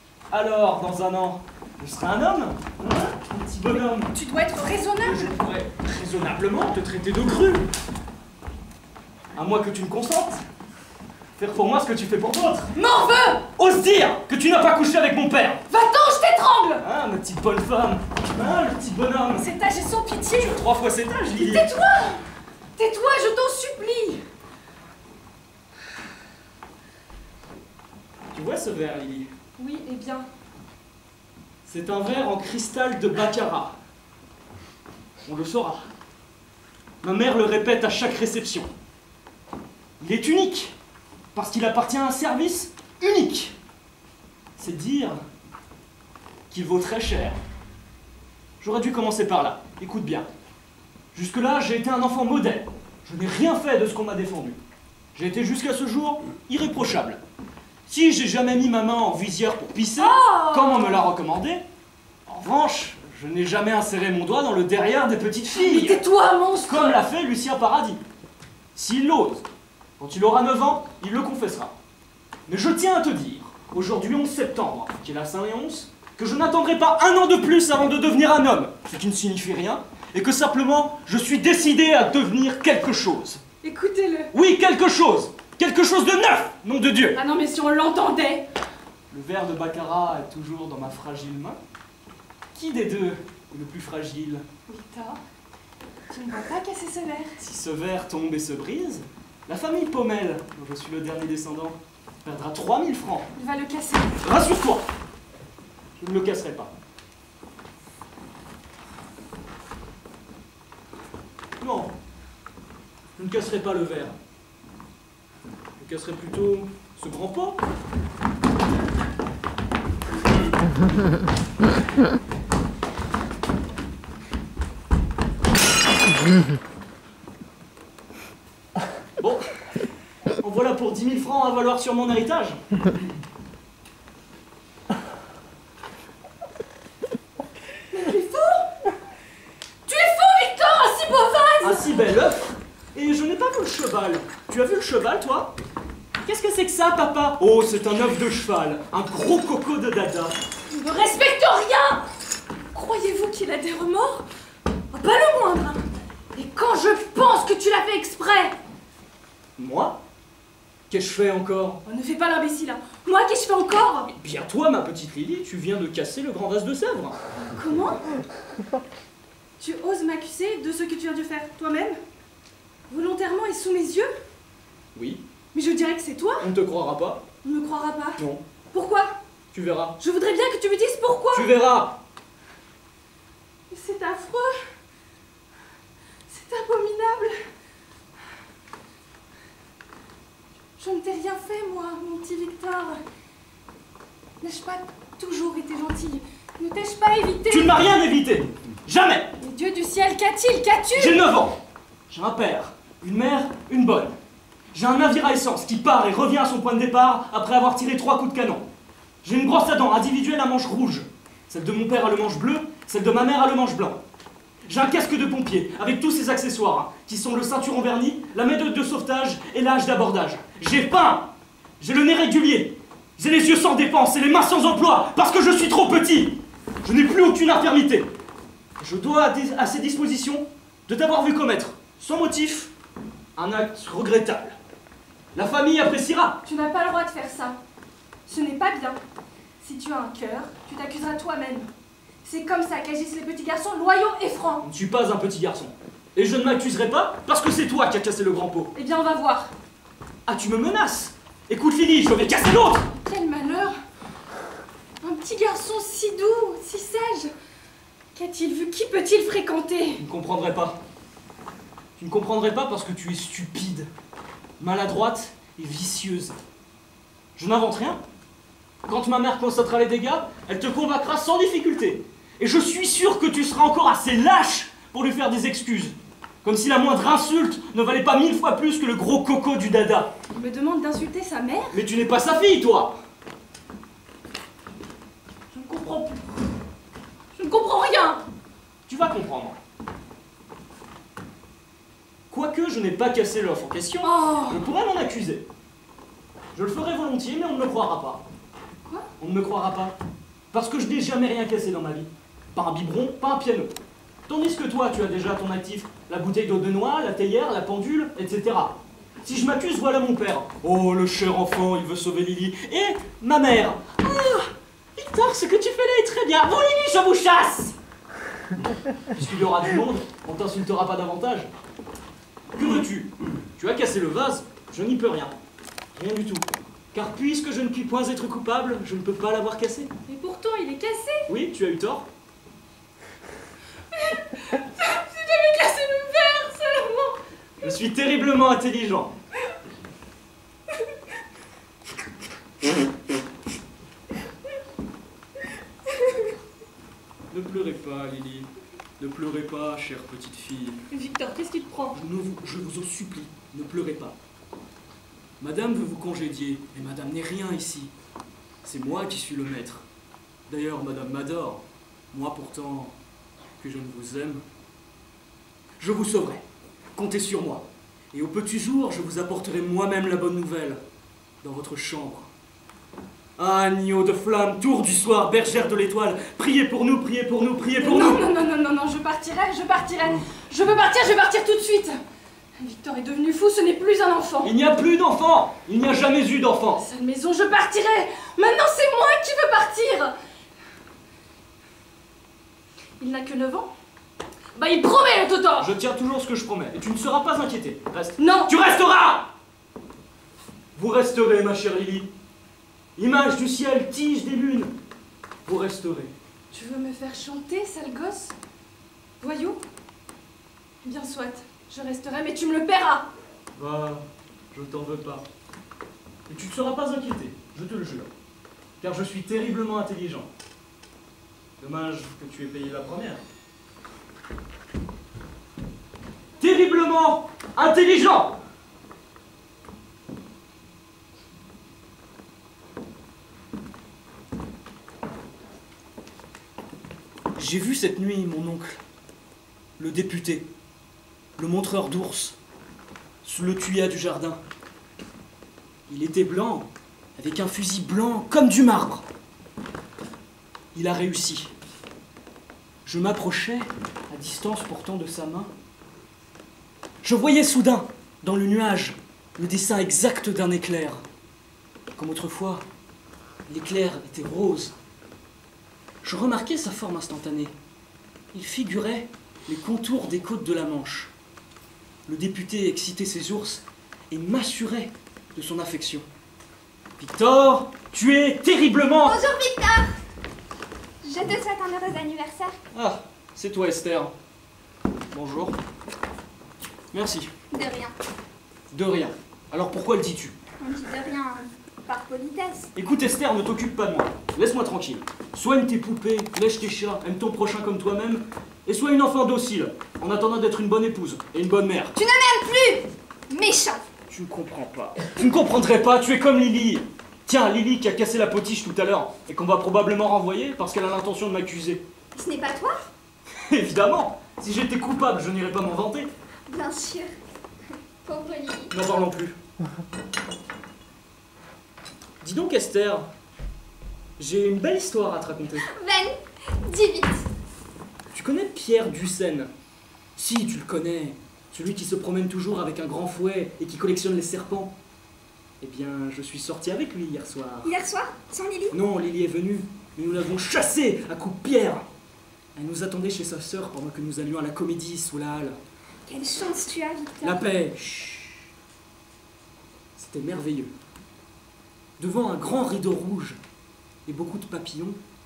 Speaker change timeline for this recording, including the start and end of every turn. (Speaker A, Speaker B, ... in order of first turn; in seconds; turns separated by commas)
Speaker A: 0.3-4.1, Speaker B: 4.1-5.3, Speaker A: 5.0-7.6, Speaker A: 9.3-10.4, Speaker A: 11.4-12.7, Speaker B: 12.7-13.4, Speaker A: 13.6-15.6, Speaker B: 15.7-16.8, Speaker A: 16.8-19.5, Speaker B: 19.3-20.6, Speaker A: 20.3-21.7, Speaker B: 21.3-22.2, Speaker B: 22.8-24.2, Speaker A: 28.3-29.3, Speaker B: 29.6-30.3, Speaker A: 31.6-33.8, Speaker A: 35.2-35.9, Speaker A: 37.0-38.7, Speaker A: 40.0-40.7, Speaker A: 41.3-43.5, Speaker A: 44.6-45.2, Speaker A: 46.5-47.4, Speaker A: 48.6-50.3, Speaker A: 51.1-54.6, Speaker A: 55.1-57.2, Speaker A: 57.9-61.6, Speaker B: 60.0-61.0, Speaker A: 62.3-66.0, Speaker B: 65.5-67.0, Speaker A: 66.6-68.0, Speaker A: 68.7-69.4, Speaker A: 70.0-71.7, Speaker A: 72.5-83.4, Speaker B: 83.6-84.3, Speaker A: 84.3-87.2, Speaker B: 87.1-88.4, Speaker A: 89.1-91.6, Speaker A: 92.5-94.4, Speaker B: 94.7-95.2, Speaker B: 96.1-97.4, Speaker A: 97.4-103.3, Speaker B: 103.3-104.2, Speaker A: 104.2-104.8, Speaker A: 106.0-106.7, Speaker A: 111.6-111.9, Speaker A: 113.2-114.1, Speaker A: 115.8-117.6, Speaker A: 129.2-129.4, Speaker A: 130.4-132.6, Speaker B: 137.9-138.7, Speaker B: 139.8-141.9, Speaker A: 141.6-145.5, Speaker A: 146.2-150.3, Speaker B: 150.7-152.0, Speaker B: 152.7-154.2, Speaker B: 154.9-158.5, Speaker A: 159.6-160.0, Speaker A: 160.9-161.8, Speaker B: 161.8-164.1, Speaker A: 164.2-167.2, Speaker B: 167.5-168.0, Speaker B: 169.6-172.0, Speaker B: 172.9-174.1, Speaker A: 174.9-175.2, Speaker B: 175.5-176.5, Speaker A: 176.4-177.2, Speaker B: 177.4-178.2, Speaker A: 178.2-178.4, Speaker B: 178.7-179.1, Speaker A: 179.5-180.0, Speaker B: 180.0-181.5, Speaker A: 181.3-182.0, Speaker B: 183.7-184.5, Speaker B: 186.3-187.3, Speaker B: 190.8-193.0, Speaker B: 194.4-197.7, Speaker A: 197.5-199.3, Speaker B: 199.4-201.2, Speaker A: 200.9-201.6, Speaker A: 202.1-204.2, Speaker A: 204.7-208.6, Speaker A: 209.2-214.0, Speaker A: 214.7-228.1, Speaker A: 228.8-232.7, Speaker A: 233.4-234.6, Speaker A: 235.3-236.4, Speaker B: 236.4-237.6, Speaker B: 238.3-239.0, Speaker B: 239.6-241.7, Speaker B: 242.2-244.6, Speaker A: 244.6-248.7, Speaker B: 248.7-249.5, Speaker A: 250.3-252.9, Speaker B: 252.9-253.7, Speaker B: 255.0-257.3, Speaker B: 258.1-260.0, Speaker A: 260.0-260.8, Speaker A: 262.0-263.9, Speaker A: 264.6-266.4, Speaker A: 267.4-268.0, Speaker A: 268.9-280.1, Speaker B: 280.3-281.8, Speaker A: 281.7-283.0, Speaker B: 285.5-286.3, Speaker B: 287.4-288.2, Speaker A: 288.9-289.6, Speaker A: 292.3-295.4, Speaker B: 294.0-294.6, Speaker A: 296.5-298.2, Speaker A: 299.2-299.9, Speaker A: 300.5-303.7, Speaker A: 304.3-317.7, Speaker A: 319.1-321.5, Speaker A: 322.5-325.4, Speaker A: 325.9-329.9, Speaker B: 330.1-331.3, Speaker A: 331.3-332.1, Speaker B: 333.9-337.2, Speaker A: 337.6-339.1, Speaker A: 347.3-350.8, Speaker B: 350.9-351.9, Speaker A: 351.9-354.1, Speaker A: 355.4-357.9, Speaker A: 358.6-359.8, Speaker A: 360.5-362.9, Speaker A: 363.6-364.4, Speaker A: 365.8-366.4, Speaker A: 366.9-370.8, Speaker A: 371.4-372.3, Speaker A: 373.4-378.2, Speaker B: 377.8-382.0, Speaker B: 382.6-384.5, Speaker A: 384.4-386.8, Speaker B: 386.8-390.1, Speaker B: 393.0-393.7, Speaker B: 394.5-395.7, Speaker A: 395.6-399.3, Speaker B: 398.2-398.5, Speaker A: 400.7-402.1, Speaker A: 403.0-404.7, Speaker A: 405.4-406.1, Speaker B: 406.5-408.3, Speaker B: 409.2-409.6, Speaker B: 410.8-413.1, Speaker A: 413.5-415.2, Speaker A: 416.3-418.1, Speaker A: 418.8-420.3, Speaker A: 421.6-423.2, Speaker A: 426.4-428.4, Speaker A: 437.4-438.8, Speaker A: 439.8-440.5, Speaker A: 441.4-442.4, Speaker A: 443.2-444.4, Speaker A: 445.9-449.0, Speaker A: 450.7-451.5, Speaker A: 452.8-455.5, Speaker A: 457.0-461.0, Speaker A: 461.9-462.6, Speaker A: 463.5-464.7, Speaker A: 466.0-467.5, Speaker A: 468.3-471.1, Speaker A: 472.1-476.0, Speaker A: 477.0-479.2, Speaker C: 479.0-479.9, Speaker C: 481.0-482.6, Speaker A: 482.7-484.1, Speaker A: 485.1-485.6, Speaker A: 486.9-487.3, Speaker C: 487.5-487.9, Speaker A: 488.7-490.3, Speaker C: 490.6-492.7, Speaker A: 492.8-501.9, Speaker C: 501.9-503.8, Speaker A: 504.1-511.8, Speaker C: 512.1-512.9, Speaker A: 513.5-516.1, Speaker C: 516.5-517.1, Speaker C: 518.0-518.7, Speaker A: 518.7-519.4, Speaker A: 522.2-523.0, Speaker A: 524.2-525.7, Speaker C: 525.7-526.1, Speaker C: 526.6-527.2, Speaker A: 528.1-529.5, Speaker A: 530.2-534.7, Speaker A: 535.6-537.7, Speaker C: 537.6-538.8, Speaker A: 538.7-541.9, Speaker A: 542.5-545.6, Speaker C: 546.1-547.4, Speaker A: 547.2-548.4, Speaker A: 550.0-550.7, Speaker A: 552.0-553.4, Speaker A: 554.1-555.0